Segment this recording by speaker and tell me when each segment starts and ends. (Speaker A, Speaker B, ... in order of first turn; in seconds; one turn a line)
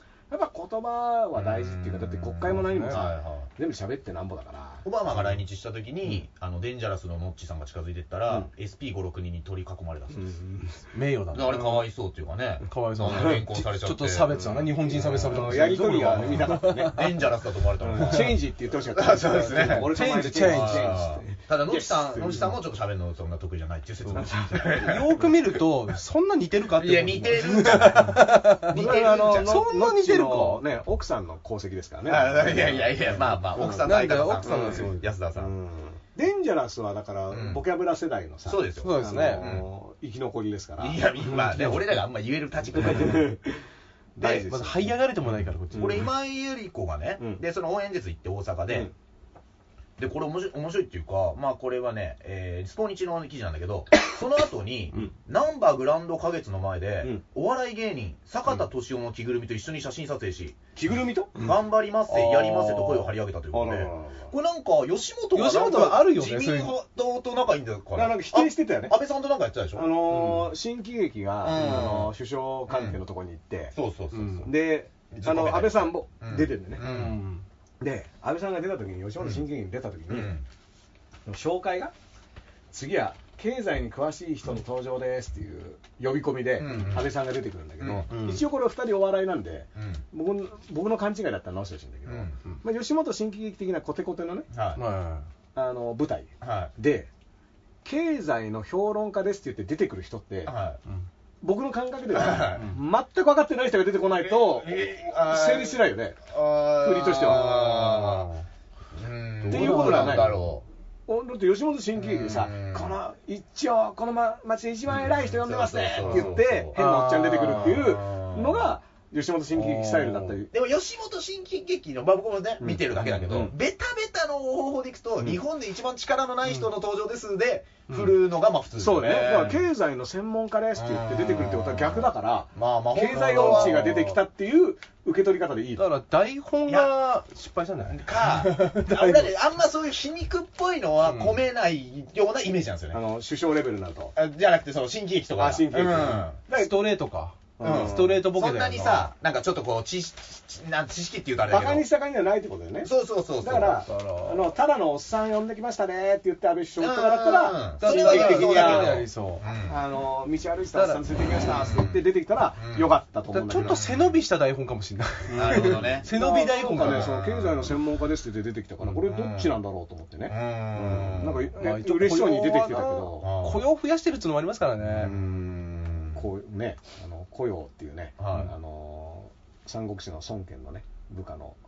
Speaker A: 0.3-4.9
Speaker B: 1.4-3.5
Speaker C: 2.5-3.0
Speaker B: 4.8-10.2
Speaker A: 10.1-10.8
Speaker C: 10.9-11.8
Speaker B: 11.3-25.4
Speaker C: 12.7-17.1
Speaker A: 13.1-13.4
Speaker A: 14.3-17.0
Speaker A: 17.8-22.5
Speaker C: 19.4-21.0
Speaker C: 24.1-30.6
Speaker A: 24.1-25.0
Speaker B: 26.7-29.6
Speaker A: 28.7-33.9
Speaker B: 32.0-35.5
Speaker C: 33.5-35.1
Speaker A: 34.4-41.0
Speaker B: 37.3-37.6
Speaker B: 38.5-39.7
Speaker C: 38.8-39.5
Speaker B: 40.8-43.3
Speaker C: 41.3-41.9
Speaker A: 42.7-43.6
Speaker A: 44.2-45.0
Speaker B: 44.2-44.5
Speaker C: 44.3-46.1
Speaker B: 45.2-48.9
Speaker A: 45.7-46.0
Speaker B: 50.0-60.6
Speaker A: 60.7-61.5
Speaker B: 61.3-69.9
Speaker C: 62.1-63.1
Speaker A: 63.5-64.3
Speaker C: 65.3-66.8
Speaker A: 67.9-69.0
Speaker A: 69.7-73.7
Speaker C: 70.1-70.5
Speaker B: 71.4-72.1
Speaker B: 72.7-73.0
Speaker B: 73.7-74.5
Speaker C: 74.1-74.5
Speaker A: 74.4-76.9
Speaker B: 75.1-77.2
Speaker C: 76.8-77.4
Speaker A: 77.8-80.3
Speaker B: 79.2-79.4
Speaker B: 80.1-80.5
Speaker A: 81.3-81.9
Speaker A: 82.7-94.5
Speaker B: 86.6-87.1
Speaker C: 86.7-86.9
Speaker B: 87.8-88.1
Speaker C: 88.1-88.4
Speaker B: 89.8-90.0
Speaker B: 92.1-92.4
Speaker B: 94.5-94.8
Speaker C: 94.8-95.3
Speaker A: 95.5-97.1
Speaker B: 96.4-96.7
Speaker A: 97.8-100.5
Speaker B: 100.5-100.8
Speaker A: 101.4-106.2
Speaker B: 102.1-102.7
Speaker B: 104.2-108.3
Speaker A: 106.8-108.2
Speaker B: 108.9-110.6
Speaker C: 109.4-110.5
Speaker A: 109.5-110.5
Speaker A: 111.1-120.5
Speaker B: 112.0-113.0
Speaker B: 114.9-116.7
Speaker C: 116.0-117.8
Speaker B: 117.6-118.7
Speaker C: 119.5-120.4
Speaker B: 120.5-129.6
Speaker A: 122.6-123.5
Speaker C: 126.5-126.7
Speaker C: 127.9-128.2
Speaker A: 128.8-135.9
Speaker B: 130.8-133.9
Speaker C: 133.1-134.2
Speaker C: 135.8-139.3
Speaker B: 137.9-143.0
Speaker C: 141.1-141.4
Speaker A: 142.9-144.1
Speaker B: 144.1-146.4
Speaker A: 145.3-146.7
Speaker C: 146.5-149.1
Speaker A: 147.6-148.2
Speaker B: 147.6-151.9
Speaker A: 151.5-159.1
Speaker B: 152.8-153.8
Speaker C: 153.9-154.5
Speaker B: 156.8-159.8
Speaker C: 157.8-159.4
Speaker A: 159.6-163.8
Speaker C: 160.7-161.0
Speaker B: 161.4-162.0
Speaker B: 162.6-162.9
Speaker C: 163.3-167.1
Speaker B: 163.6-164.1
Speaker A: 165.3-173.4
Speaker B: 165.3-166.1
Speaker B: 166.8-167.7
Speaker B: 168.8-169.6
Speaker B: 170.3-171.5
Speaker C: 171.6-175.1
Speaker B: 173.2-173.7
Speaker B: 174.8-176.2
Speaker A: 175.0-175.6
Speaker A: 176.1-181.6
Speaker B: 178.2-178.5